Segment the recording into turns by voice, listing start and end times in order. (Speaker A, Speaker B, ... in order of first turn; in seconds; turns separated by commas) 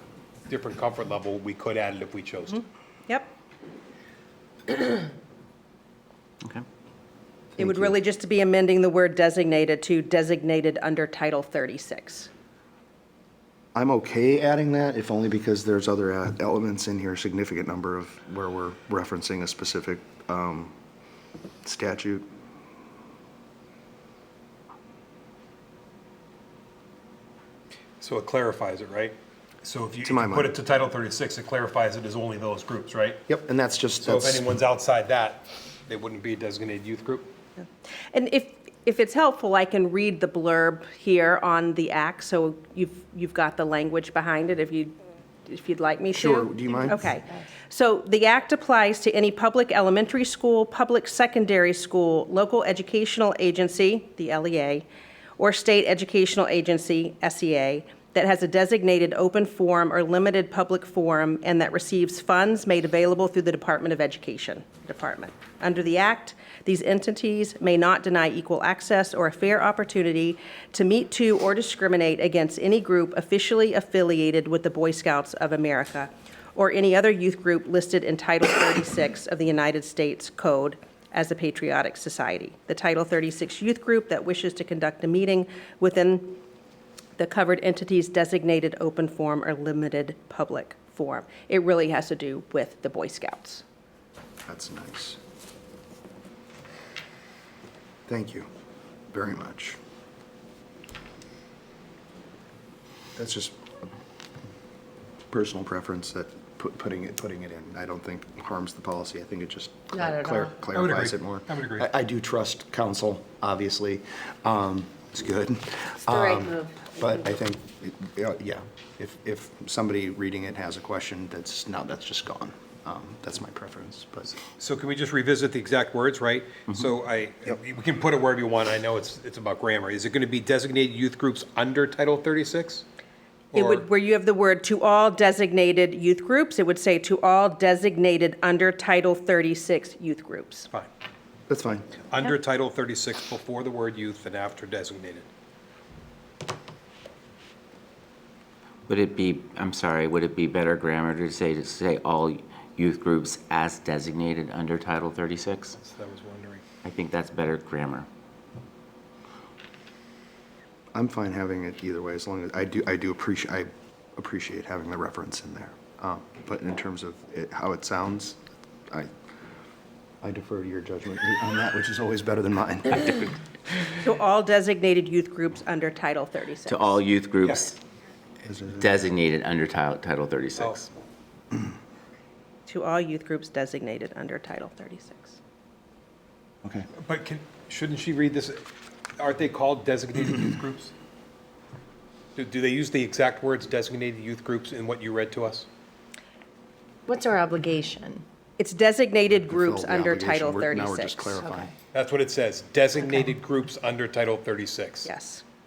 Speaker A: 0.5-2.6, Speaker B: 7.5-7.9, Speaker C: 7.6-12.3, Speaker B: 13.7-20.7, Speaker B: 21.6-22.3, Speaker A: 28.0-33.2, Speaker B: 30.0-30.6, Speaker B: 33.3-34.4, Speaker A: 34.0-37.3, Speaker C: 37.6-54.8, Speaker B: 46.1-47.1, Speaker C: 55.4-86.4, Speaker C: 87.2-93.6, Speaker B: 94.5-95.2, Speaker B: 98.1-98.5, Speaker B: 99.1-99.8, Speaker B: 103.2-103.6, Speaker B: 105.3-124.3, Speaker D: 109.9-110.5, Speaker A: 110.7-111.9, Speaker D: 116.1-117.2, Speaker A: 124.4-132.8, Speaker A: 133.5-133.8, Speaker C: 133.5-140.7, Speaker B: 141.5-141.9, Speaker A: 142.1-145.3, Speaker E: 148.9-155.8, Speaker A: 155.8-156.6, Speaker E: 156.8-158.1, Speaker B: 160.9-168.4, Speaker B: 170.2-173.4, Speaker C: 174.0-177.0, Speaker E: 176.7-177.8, Speaker B: 178.4-178.8, Speaker E: 178.8-180.9, Speaker C: 182.7-185.4, Speaker A: 187.0-188.7, Speaker A: 189.2-190.9, Speaker A: 192.3-195.7, Speaker D: 197.1-198.2, Speaker C: 198.6-201.3, Speaker B: 199.5-201.7, Speaker A: 201.9-205.1, Speaker C: 205.0-205.4